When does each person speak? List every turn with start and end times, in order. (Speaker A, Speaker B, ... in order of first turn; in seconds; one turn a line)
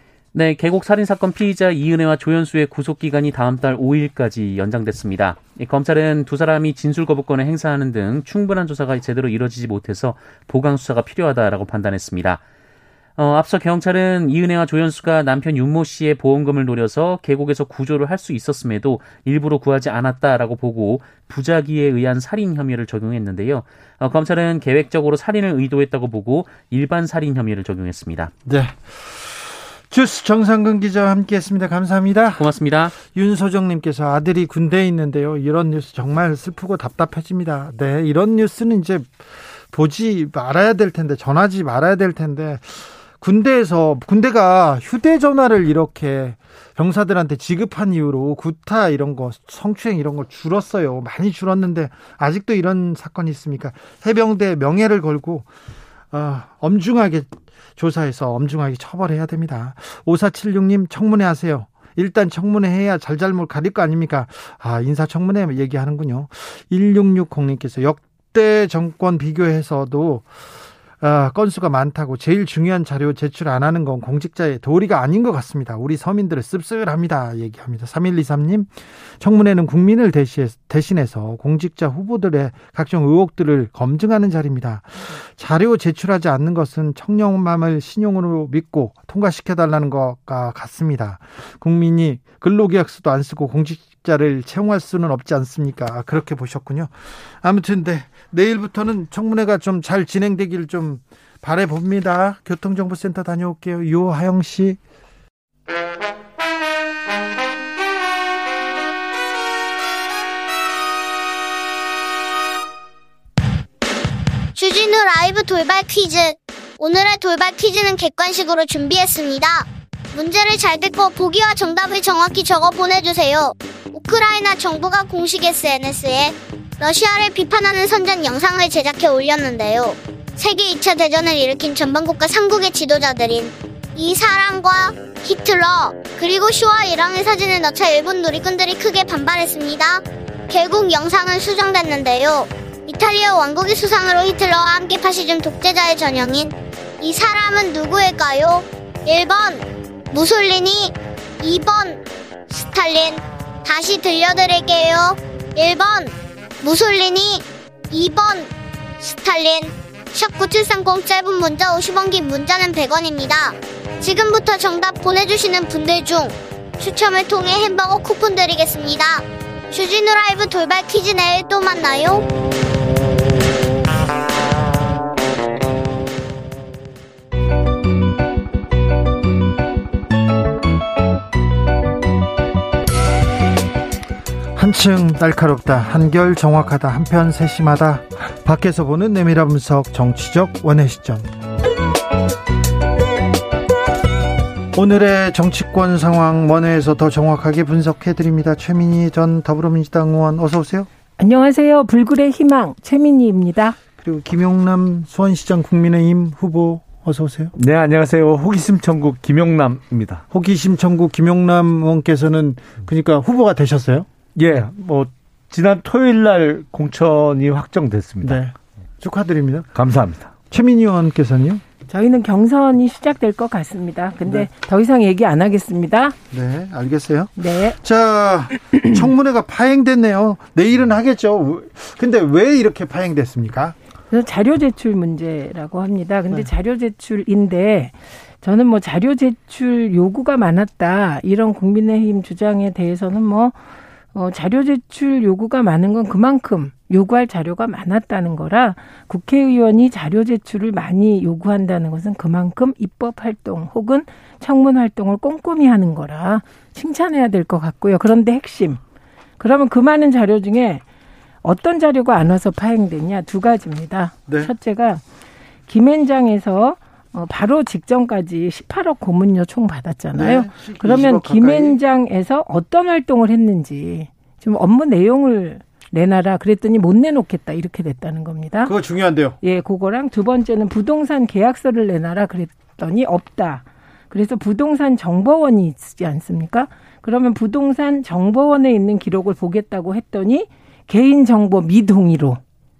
Speaker A: 0.3-12.4
Speaker A: 13.2-28.3
Speaker B: 28.4-32.5
Speaker A: 32.4-32.9
Speaker B: 33.0-55.5
Speaker B: 56.1-70.4
Speaker B: 71.0-104.8
Speaker C: 114.5-158.5
Speaker C: 159.0-172.2
Speaker B: 184.5-191.3
Speaker B: 194.7-200.9
Speaker D: 201.2-203.8
Speaker B: 204.0-207.5
Speaker E: 207.6-210.2
Speaker B: 210.3-214.1
Speaker E: 214.3-218.4
Speaker B: 218.2-219.7
Speaker E: 219.7-220.3
Speaker B: 220.5-221.6
Speaker D: 221.9-226.2
Speaker B: 226.3-233.8
Speaker D: 227.4-227.8
Speaker D: 234.1-243.6
Speaker D: 244.1-258.8
Speaker D: 259.4-260.8
Speaker D: 261.4-265.0
Speaker B: 264.3-264.5
Speaker D: 265.7-278.7
Speaker B: 270.1-271.8
Speaker B: 278.6-279.4
Speaker D: 279.4-292.4